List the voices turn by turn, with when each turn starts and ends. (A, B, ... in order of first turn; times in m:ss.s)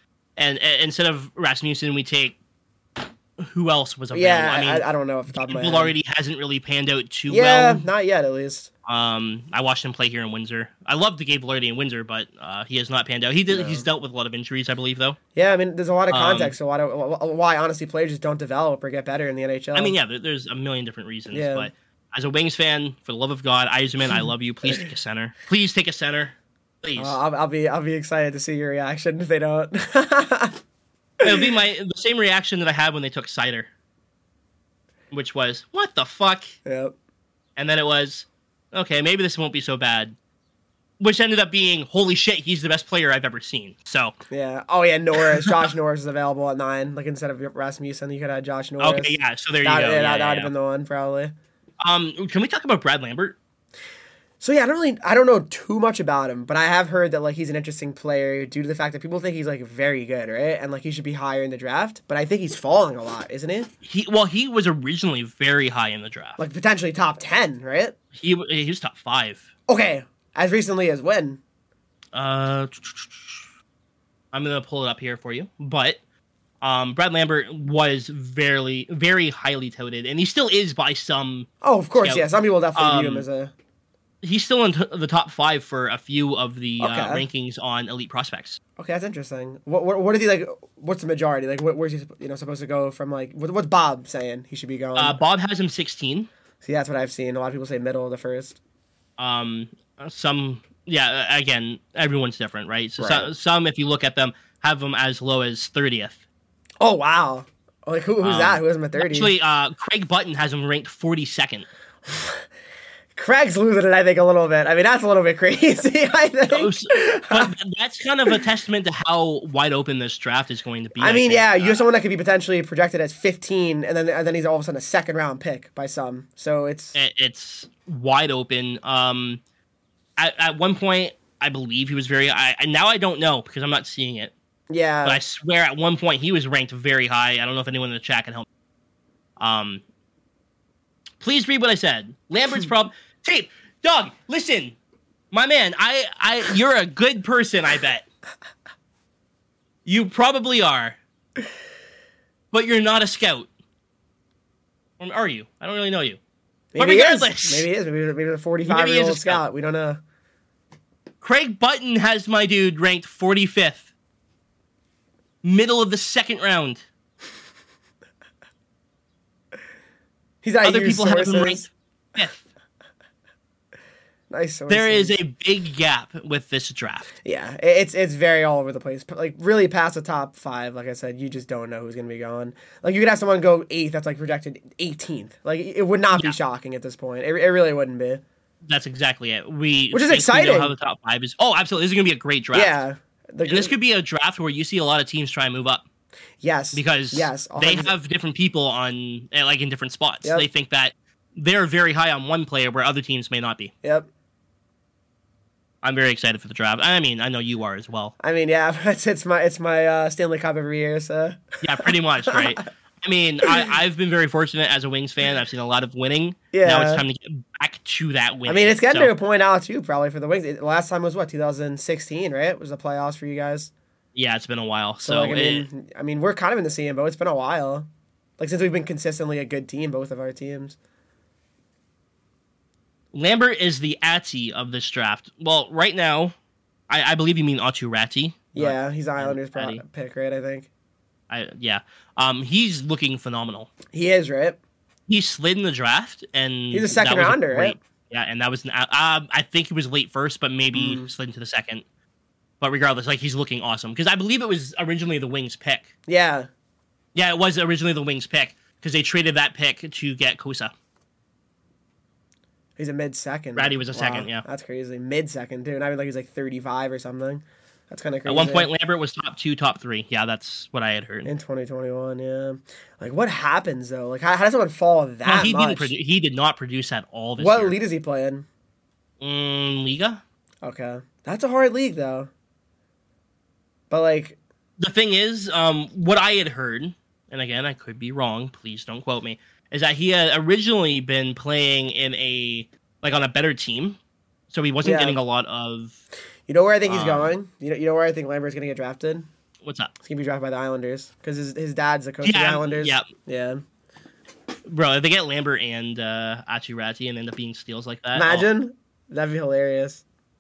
0:00.4-0:02.4 A
0:03.4-0:07.9 A
0:04.1-0:06.0 B
0:07.3-0:08.7 B
0:08.9-0:15.2 A
0:13.5-0:13.9 B
0:15.4-0:20.0 B
0:16.1-0:16.6 A
0:19.8-0:27.2 A
0:21.3-0:21.7 B
0:27.0-0:30.6 B
0:31.2-0:33.7 A
0:31.2-0:31.5 B
0:35.1-0:36.6 A
0:36.6-0:36.9 B
0:37.6-0:40.2 A
0:41.0-0:44.2 A
0:44.3-0:51.3 B
0:48.8-0:50.5 A
0:51.8-0:53.4 A
0:54.4-1:03.7 B
1:03.8-1:06.4 A
1:06.4-1:08.0 B
1:08.2-1:09.5 A
1:09.7-1:11.4 B
1:12.1-1:13.5 A
1:14.3-1:16.0 A
1:16.6-1:21.5 A
1:21.6-1:23.5 B
1:22.0-1:23.3 A
1:24.2-1:28.6 A
1:26.8-1:27.3 B
1:28.8-1:35.2 B
1:35.0-1:36.3 A
1:36.6-1:38.6 B
1:39.2-1:46.2 A
1:43.0-1:43.3 B
1:46.8-1:49.3 B
1:48.2-1:51.7 A
1:52.1-1:52.4 B
1:53.1-1:57.5 B
1:56.5-2:01.8 A
2:01.0-2:07.0 B
2:07.0-2:09.4 A
2:10.2-2:14.3 A
2:14.7-2:15.2 B
2:15.0-2:18.5 A
2:19.4-2:19.8 A
2:21.2-2:24.8 A
2:25.3-2:28.0 A
2:29.9-2:31.0 A
2:32.5-2:33.5 A
2:35.0-2:36.2 A
2:36.7-2:40.0 B
2:36.8-2:37.7 A
2:38.6-2:39.4 A
2:41.2-2:43.9 A
2:45.4-2:46.8 A
2:50.4-2:51.7 B
2:50.6-2:52.5 A
2:54.3-2:55.2 B
2:54.7-2:57.1 A
2:57.2-3:08.2 B
3:06.1-3:06.4 A
3:08.7-3:12.8 A
3:09.9-3:10.7 B
3:12.5-3:13.7 B
3:13.4-3:15.8 A
3:16.4-3:17.9 B
3:16.7-3:23.7 A
3:23.8-3:24.1 B
3:25.8-3:28.2 A
3:28.2-3:32.5 B
3:31.6-3:39.1 A
3:36.5-3:37.0 B
3:38.5-3:43.7 B
3:44.2-3:45.7 A
3:45.0-3:47.9 B
3:48.4-3:50.8 B
3:53.1-3:56.3 A
3:56.9-3:59.8 A
3:58.6-4:00.7 B
4:01.3-4:03.7 A
4:03.9-4:04.6 B
4:05.1-4:11.8 A
4:06.7-4:07.8 B
4:10.7-4:11.1 B
4:12.6-4:15.9 A
4:16.1-4:16.5 B
4:17.2-4:20.7 A
4:22.8-4:28.7 B
4:23.6-4:24.4 A
4:28.3-4:31.3 A
4:31.2-4:35.9 B
4:35.2-4:37.8 A
4:37.4-4:38.5 B
4:39.2-4:40.2 A
4:40.6-4:42.3 B
4:43.9-4:44.4 B
4:44.8-4:54.0 A
4:54.5-4:56.0 A
4:54.8-4:55.2 B
4:56.5-4:59.3 B
4:56.9-4:57.3 A
4:59.6-4:59.9 A
5:00.0-5:03.6 B
5:02.2-5:03.1 A
5:04.7-5:08.5 A
5:08.1-5:10.0 B